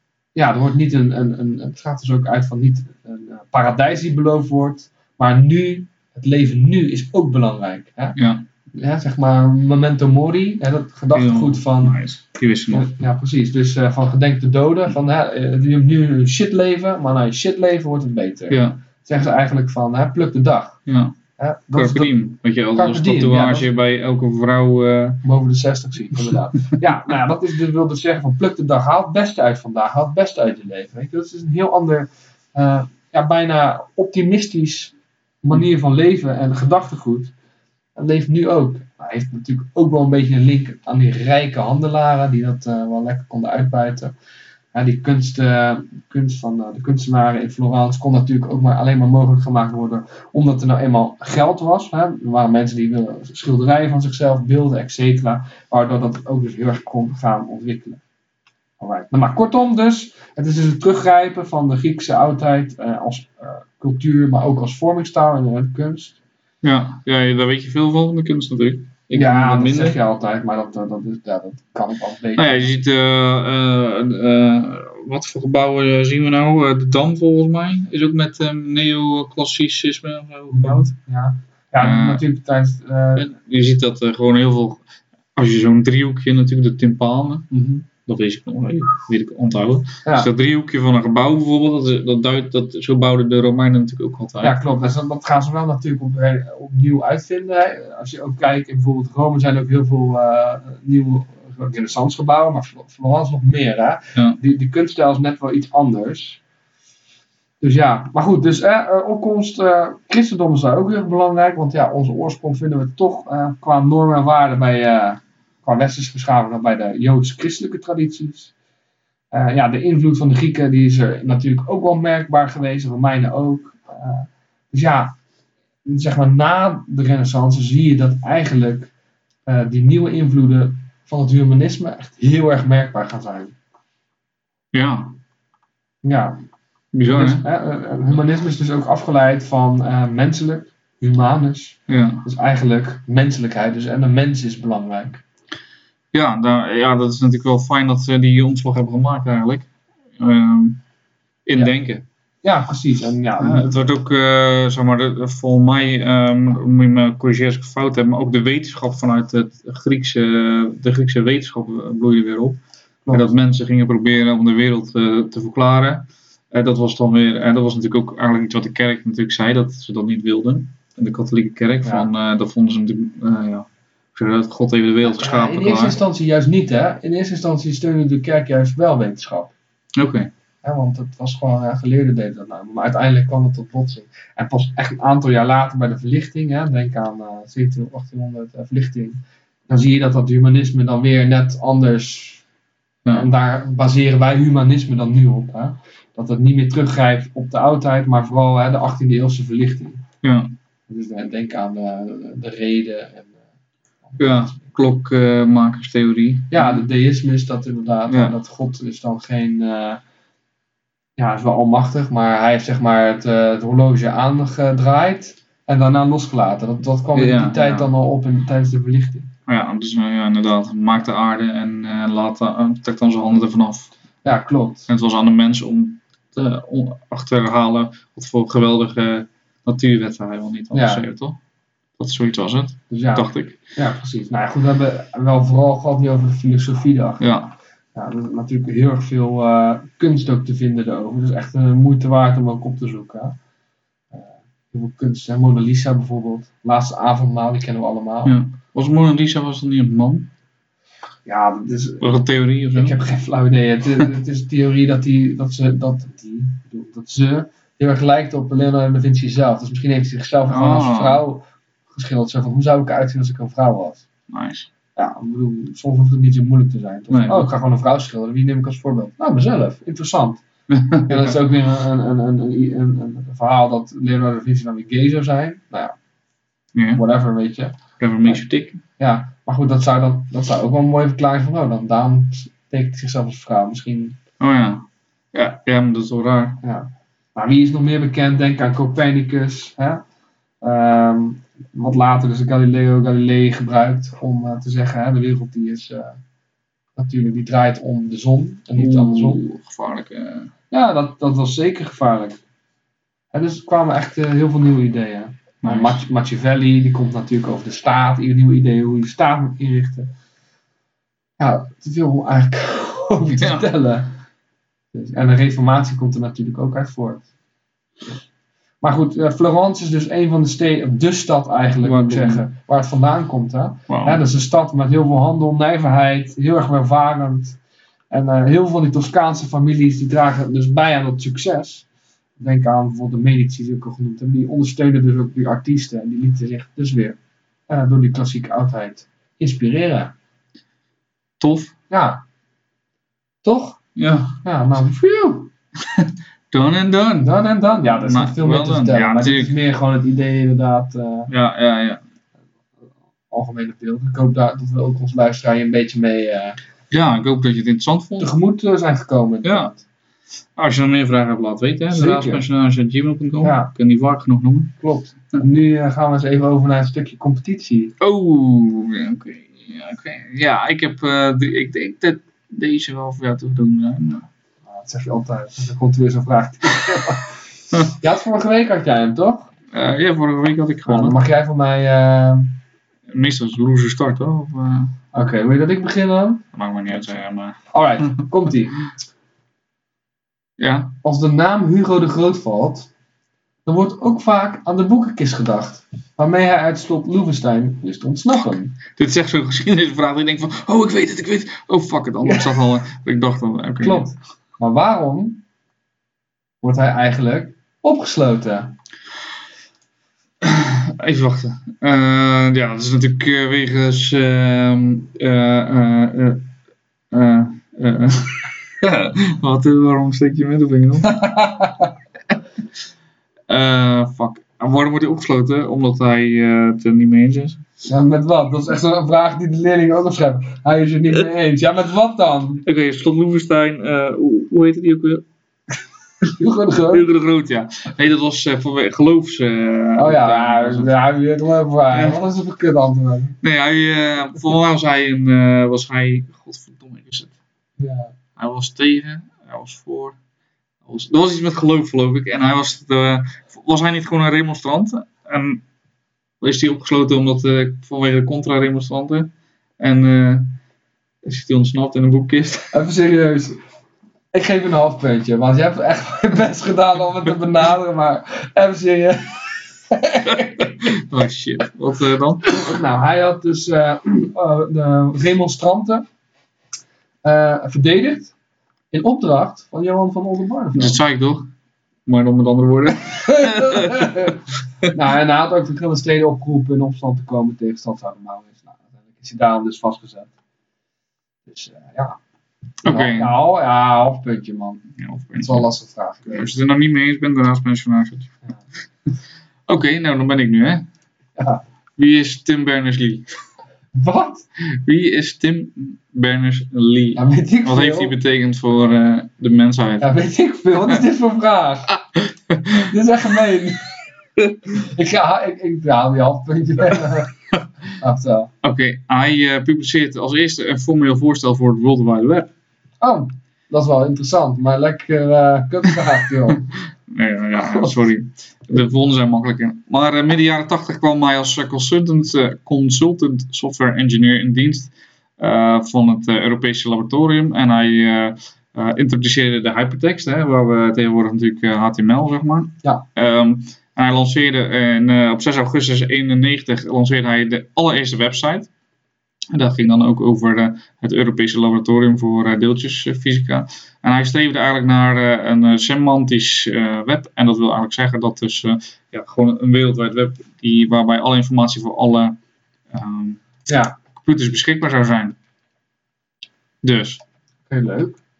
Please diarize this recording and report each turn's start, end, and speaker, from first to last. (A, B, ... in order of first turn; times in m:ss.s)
0:00.3-0:08.2 A
0:08.2-0:08.4 B
0:08.7-0:12.0 A
0:11.1-0:12.9 B
0:12.7-0:20.8 A
0:18.5-0:18.8 B
0:20.9-0:21.1 B
0:21.4-0:22.1 A
0:21.7-0:25.2 B
0:22.7-0:23.7 A
0:25.2-0:37.3 A
0:38.0-0:44.1 A
0:44.7-0:58.0 A
0:58.8-1:06.2 A
1:06.6-1:10.0 B
1:09.1-1:12.7 A
1:12.4-1:20.9 B
1:20.5-1:23.3 A
1:21.8-1:22.2 B
1:23.2-1:24.8 B
1:25.3-1:34.6 B
1:27.5-1:27.8 A
1:34.4-1:46.4 A
1:47.6-1:58.5 A
1:59.3-2:05.2 A
2:05.8-2:08.9 A
2:09.4-2:13.5 A
2:14.7-2:15.2 B
2:16.0-2:16.4 A
2:16.9-2:17.4 B
2:17.1-2:25.2 A
2:21.9-2:22.2 B
2:26.1-2:30.8 B
2:31.4-2:32.0 B
2:32.4-2:33.8 A
2:33.4-2:42.6 B
2:43.0-2:43.3 A
2:43.1-2:56.0 B
2:51.8-2:52.1 A
2:55.0-2:59.5 A
3:00.0-3:00.3 B
3:00.6-3:12.4 A
3:13.1-3:20.0 A
3:20.2-3:20.5 B
3:20.9-3:23.4 A
3:24.0-3:24.7 A
3:24.2-3:26.8 B
3:26.5-3:30.0 A
3:28.1-3:28.4 B
3:31.2-3:39.3 A
3:37.1-3:37.9 B
3:39.5-3:43.9 B
3:44.2-3:44.9 A
3:44.9-3:51.4 B
3:50.7-3:51.0 A
3:52.0-3:53.6 B
3:52.9-3:57.3 A
3:57.2-3:57.5 B
3:57.9-4:03.4 A
4:04.1-4:08.4 A
4:08.2-4:10.3 B
4:11.2-4:12.2 A
4:12.0-4:13.0 B
4:12.7-4:24.0 A
4:20.5-4:21.2 B
4:24.3-4:24.7 B
4:25.0-4:30.4 A
4:27.1-4:27.5 B
4:30.7-4:31.4 B
4:31.0-4:35.9 A
4:36.7-4:37.0 B
4:36.9-4:38.4 A
4:38.0-4:38.8 B
4:39.0-4:44.2 A
4:44.4-4:46.6 B
4:46.6-4:50.0 A
4:50.6-4:56.2 A
4:57.0-4:59.4 A
4:58.8-5:00.5 B
5:00.7-5:02.4 A
5:03.3-5:10.1 A
5:05.6-5:06.0 B
5:11.4-5:14.1 A
5:13.3-5:13.7 B
5:14.9-5:17.2 A
5:18.8-5:27.6 A
5:21.8-5:22.4 B
5:23.9-5:24.2 B
5:28.1-5:31.8 A
5:32.4-5:37.2 A
5:37.7-5:40.1 A
5:41.4-5:41.7 B
5:41.9-5:42.2 A
5:43.4-5:43.8 A
5:44.0-5:44.4 B
5:44.4-5:45.5 A
5:45.9-5:47.3 B
5:47.2-5:51.3 A
5:47.9-5:49.5 B
5:51.3-5:52.0 B
5:53.3-5:56.6 A
5:56.9-5:58.3 B
5:58.2-5:59.8 A
5:59.4-5:59.7 B
6:00.6-6:04.8 B
6:01.9-6:02.4 A
6:03.4-6:03.7 A
6:04.8-6:07.9 A
6:08.0-6:14.3 B
6:14.6-6:19.5 A
6:19.7-6:21.2 B
6:20.8-6:22.6 A
6:23.1-6:24.9 B
6:25.1-6:26.4 A
6:26.5-6:27.6 B
6:27.7-6:28.9 A
6:30.6-6:30.9 B
6:31.0-6:32.9 A
6:33.6-6:38.8 A
6:38.9-6:44.1 B
6:43.8-6:45.4 A
6:46.6-6:48.7 A
6:50.4-6:56.5 B
6:57.1-7:01.1 B
7:01.1-7:01.9 A
7:03.5-7:07.6 B
7:07.9-7:12.6 A
7:12.6-7:15.2 B
7:16.2-7:17.1 A
7:16.9-7:20.9 B
7:20.0-7:23.4 A
7:21.9-7:22.2 B
7:23.4-7:27.3 B
7:27.8-7:28.1 A
7:28.4-7:30.2 B
7:30.8-7:35.6 B
7:36.4-7:40.6 B
7:41.2-7:42.7 B
7:42.7-7:43.6 A
7:44.3-7:50.9 A
7:50.2-7:52.5 B
7:52.5-7:56.0 A
7:57.2-7:58.3 A
7:58.9-8:01.0 A
8:00.7-8:01.5 B
8:02.0-8:04.3 B
8:03.2-8:10.3 A
8:11.5-8:12.2 A
8:12.8-8:13.3 B
8:12.8-8:16.5 A
8:15.0-8:15.7 B
8:16.3-8:18.3 B
8:19.7-8:20.8 B
8:21.4-8:21.6 A
8:22.0-8:23.3 B
8:23.9-8:24.4 A
8:24.7-8:30.1 B
8:27.2-8:28.1 A
8:30.0-8:32.0 A
8:32.2-8:32.9 B
8:32.8-8:33.9 A
8:34.7-8:37.4 A
8:38.0-8:38.5 A
8:38.6-8:42.5 B
8:43.0-8:46.7 A
8:46.5-9:08.7 B
8:47.7-8:47.9 A
9:09.5-9:22.4 B
9:22.9-9:23.4 B
9:23.7-9:23.9 A
9:24.2-9:25.4 B
9:26.8-9:27.2 B
9:27.7-9:28.2 A